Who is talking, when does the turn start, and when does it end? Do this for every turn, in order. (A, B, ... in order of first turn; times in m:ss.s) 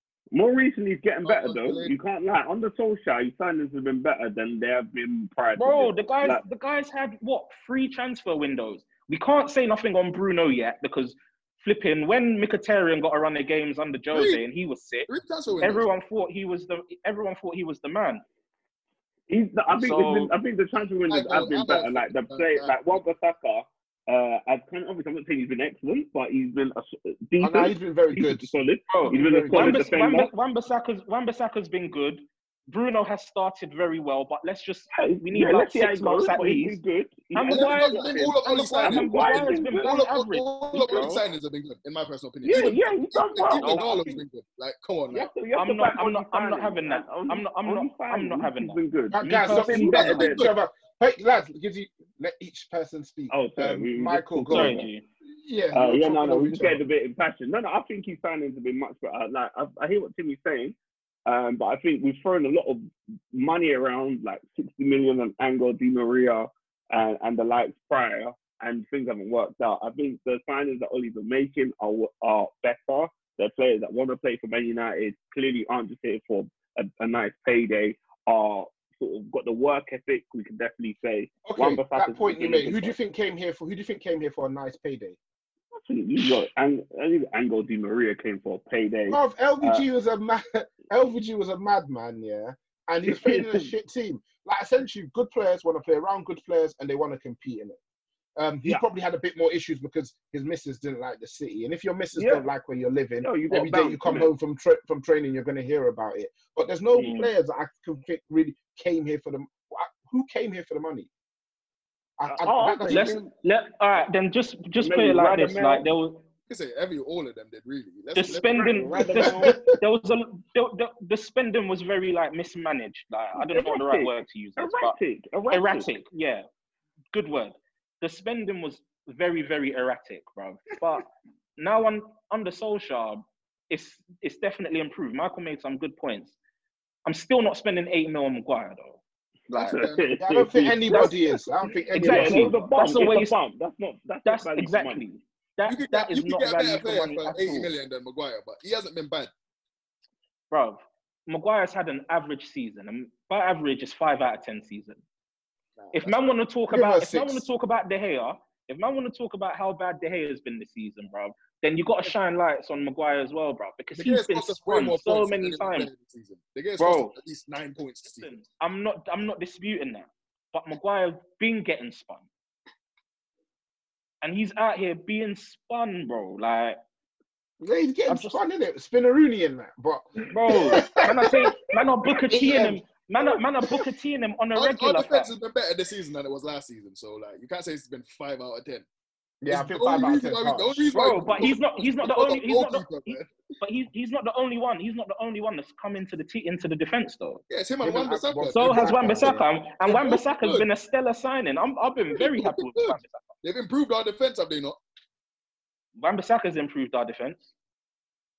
0:00.3-0:06.4 A
0:01.2-0:01.9 B
0:05.6-0:15.1 C
0:14.1-0:14.4 B
0:15.1-0:15.9 B
0:15.6-0:18.2 C
0:19.3-0:30.3 A
0:19.7-0:20.3 C
0:21.1-0:22.7 B
0:27.4-0:28.5 D
0:28.9-0:36.8 C
0:29.1-0:29.8 D
0:34.9-0:40.0 A
0:37.3-0:41.2 C
0:37.4-0:45.3 B
0:40.8-0:41.1 A
0:42.4-0:44.2 A
0:43.6-0:44.1 C
0:45.1-0:50.5 A
0:45.5-0:50.2 C
0:49.1-0:54.8 D
0:49.9-0:50.5 B
0:53.3-0:54.9 A
0:54.5-0:55.0 C
0:55.4-0:56.8 D
0:55.7-1:00.8 A
1:01.3-1:23.0 A
1:21.4-1:25.2 D
1:25.8-1:29.8 A
1:29.1-1:37.8 D
1:33.1-1:33.6 A
1:38.4-1:51.1 D
1:42.1-1:42.4 A
1:43.2-1:44.3 A
1:46.9-1:47.3 C
1:52.2-1:53.2 D
1:52.3-1:53.3 A
1:52.9-1:56.2 C
1:54.8-1:55.8 A
1:56.5-1:59.3 B
1:58.1-2:04.9 C
1:58.6-1:59.6 A
1:59.2-1:59.6 D
2:03.4-2:05.9 A
2:05.5-2:06.4 C
2:07.1-2:11.1 C
2:11.6-2:16.3 C
2:17.0-2:19.0 C
2:19.5-2:19.8 C
2:19.5-2:25.1 A
2:19.7-2:20.2 B
2:20.2-2:22.6 D
2:21.9-2:23.4 C
2:24.2-2:27.7 C
2:25.7-2:29.3 B
2:30.5-2:35.0 C
2:35.8-2:36.1 B
2:35.9-2:45.9 C
2:36.7-2:37.4 D
2:43.9-2:48.3 B
2:46.8-2:47.1 C
2:48.2-2:52.2 C
2:54.2-2:56.8 C
2:57.6-3:01.5 D
2:58.1-2:58.4 C
3:00.3-3:05.3 C
3:02.3-3:02.8 D
3:04.5-3:08.8 B
3:09.4-3:10.8 D
3:09.5-3:13.3 B
3:10.9-3:17.4 C
3:17.5-3:19.2 B
3:17.8-3:19.4 D
3:18.5-3:23.2 C
3:19.8-3:20.7 B
3:22.1-3:24.8 B
3:26.0-3:27.4 C